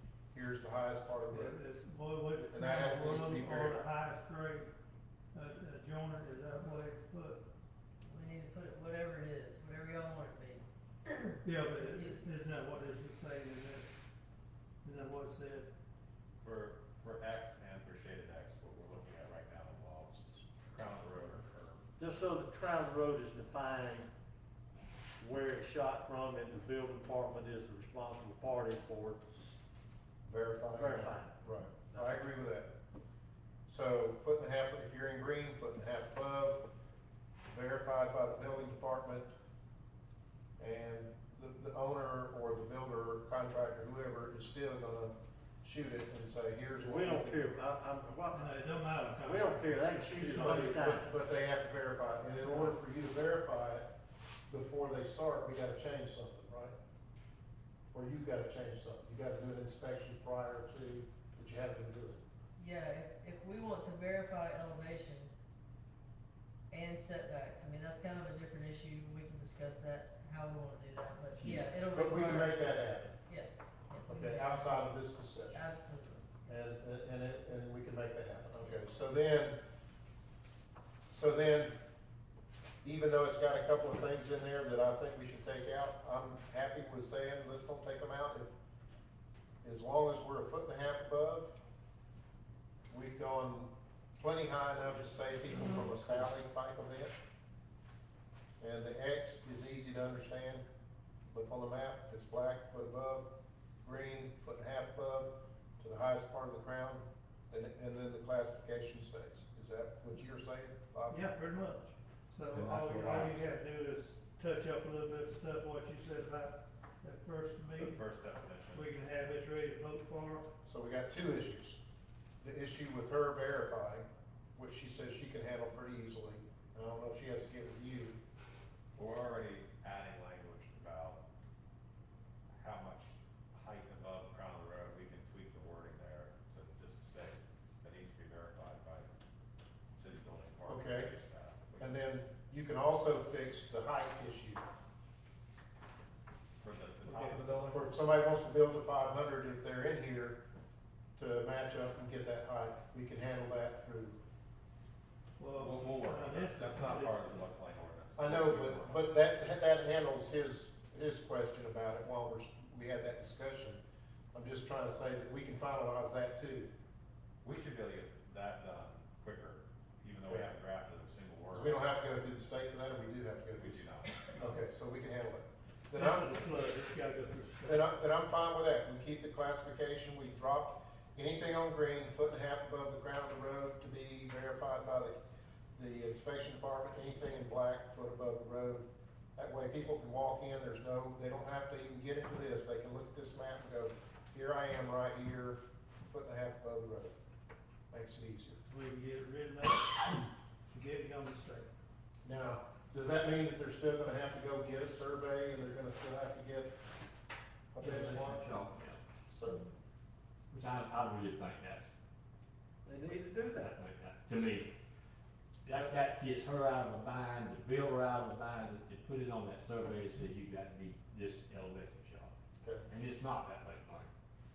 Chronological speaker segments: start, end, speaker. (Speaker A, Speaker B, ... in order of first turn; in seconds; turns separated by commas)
Speaker A: 0.3-1.6, Speaker B: 1.3-4.7, Speaker A: 2.5-3.8, Speaker B: 5.3-7.4, Speaker C: 8.1-12.2, Speaker B: 11.4-13.9, Speaker B: 14.8-15.7, Speaker D: 16.4-21.9, Speaker E: 22.0-24.1, Speaker E: 25.2-29.6, Speaker A: 30.3-32.7, Speaker E: 30.7-32.2, Speaker A: 33.7-36.6, Speaker A: 37.5-39.3, Speaker A: 40.6-47.5, Speaker E: 46.8-48.6, Speaker B: 48.3-51.1, Speaker E: 49.1-51.1, Speaker A: 50.3-53.9, Speaker A: 54.5-56.8, Speaker A: 57.9-62.2, Speaker C: 62.6-65.3, Speaker C: 66.7-72.7, Speaker A: 71.9-73.1, Speaker C: 73.3-74.9, Speaker A: 74.1-75.6, Speaker C: 75.5-76.3, Speaker A: 76.5-79.5, Speaker A: 81.1-81.7, Speaker A: 82.8-88.5, Speaker A: 89.6-91.5, Speaker A: 92.9-97.1, Speaker A: 98.6-100.6, Speaker A: 101.3-103.3, Speaker A: 103.8-111.2, Speaker B: 111.1-118.0, Speaker F: 112.5-113.4, Speaker D: 117.8-118.9, Speaker B: 118.7-120.5, Speaker A: 120.6-121.8, Speaker A: 122.4-124.0, Speaker A: 124.6-128.2, Speaker D: 129.0-131.2, Speaker D: 132.5-139.1, Speaker D: 139.9-141.9, Speaker A: 140.7-141.1, Speaker A: 141.8-144.6, Speaker D: 146.6-147.7, Speaker B: 147.0-147.8, Speaker A: 147.7-150.4, Speaker A: 151.2-154.2, Speaker B: 155.4-157.4, Speaker D: 155.6-159.1, Speaker A: 158.2-163.8, Speaker A: 164.3-166.7, Speaker D: 167.4-171.8, Speaker A: 171.5-173.8, Speaker D: 173.5-174.2, Speaker A: 174.4-176.3, Speaker B: 175.9-177.8, Speaker A: 177.7-185.2, Speaker A: 185.8-188.8, Speaker A: 189.4-197.2, Speaker A: 197.9-198.6, Speaker B: 198.7-201.7, Speaker A: 202.2-206.7, Speaker A: 207.7-208.5, Speaker F: 207.8-209.0, Speaker A: 209.3-209.6, Speaker F: 210.5-211.9, Speaker E: 212.8-213.8, Speaker F: 213.0-214.7, Speaker F: 215.7-222.3, Speaker F: 222.9-224.1